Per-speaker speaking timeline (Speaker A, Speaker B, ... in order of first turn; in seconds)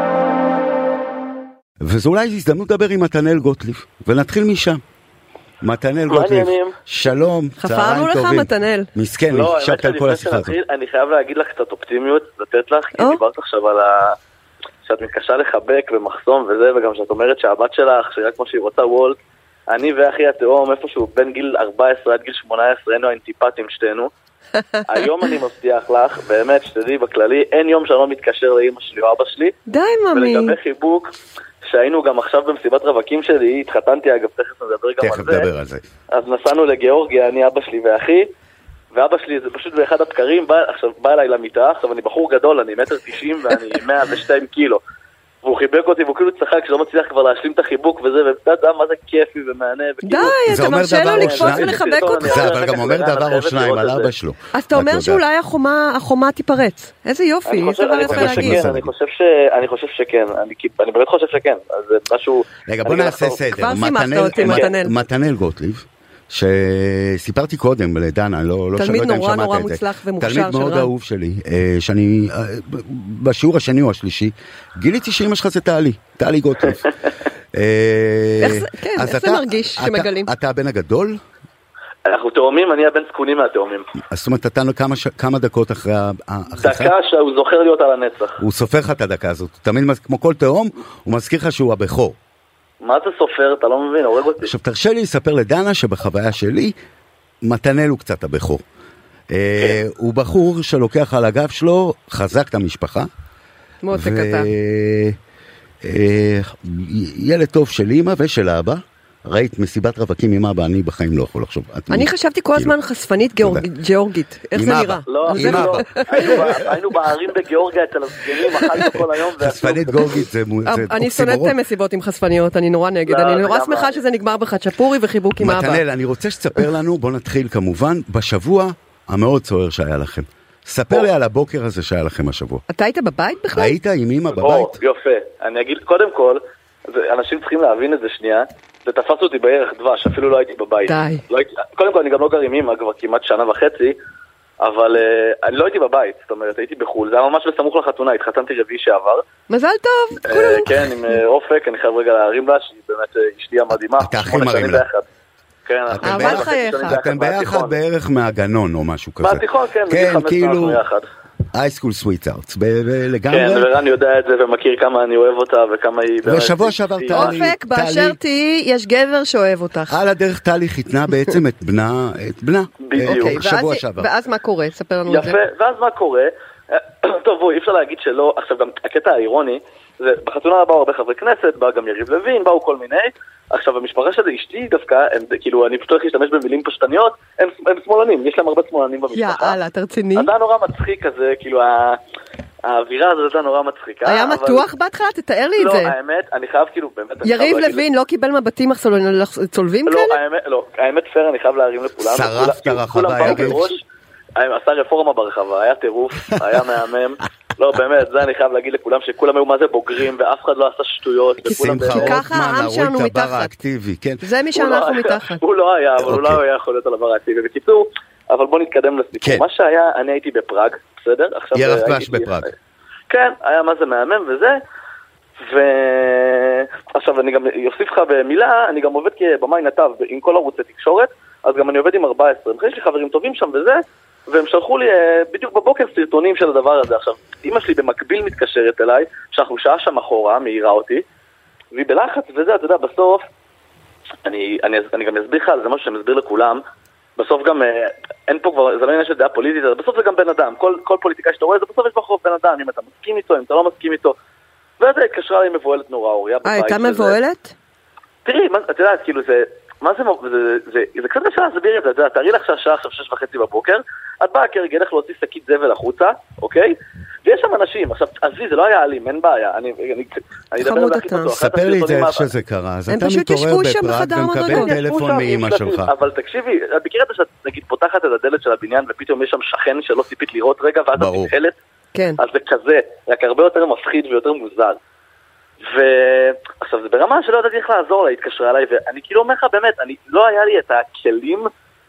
Speaker A: 1.8-4.8, 5.6-10.6, 35.0-35.8, 50.5-55.2, 58.1-58.9, 62.7-76.8, 77.5-81.2, 84.1-86.9, 88.4-92.1, 94.4-96.7, 97.4-98.6, 99.3-103.1, 103.9-105.2, 105.8-112.7, 114.5-116.6, 118.6-121.5, 125.4-132.6, 133.5-134.8, 154.0-154.8, 155.9-160.8, 161.5-163.7, 166.2-168.2, 169.9-174.1, 202.0-203.6, 211.4-214.3, 216.0-216.4, 221.5-222.5, 271.3-275.9, 280.9-281.3
Speaker B: 6.1-6.8, 9.3-14.2, 14.8-19.1, 19.7-24.1, 24.9-29.5, 30.1-31.1, 31.6-35.5, 36.1-38.3, 38.9-44.8, 45.4-54.1, 57.5-63.6, 64.3-64.7, 82.0-83.8, 86.5-88.4, 92.8-94.5, 115.1-120.2, 123.1-124.0, 134.3-144.0, 144.6-149.2, 150.3-155.1, 155.7-157.8, 159.2-161.0, 163.3-167.4, 172.8-173.4, 175.1-189.6, 190.1-192.0, 192.6-194.7, 195.6-197.8, 199.9-203.8, 204.3-212.2, 214.5-222.5, 223.1-224.6, 225.4-241.0, 241.7-243.2, 244.2-246.6, 247.2-254.1, 254.8-257.2, 258.2-272.3, 274.4-281.6, 282.2-284.8, 285.6-291.5
Speaker C: 7.6-8.9, 29.7-30.6, 50.0-52.5, 54.5-58.6, 63.5-64.9, 68.8-70.9, 78.4-80.3, 103.8-104.5, 111.9-116.5, 120.6-125.8, 132.7-133.7, 140.9-141.2, 149.5-151.2, 156.0-157.0, 167.1-170.0, 173.0-175.4, 189.1-190.3, 194.0-195.9, 197.2-200.2, 203.2-203.5, 211.9-213.5, 214.2-215.4, 256.4-257.5, 270.6-271.3, 272.9-274.8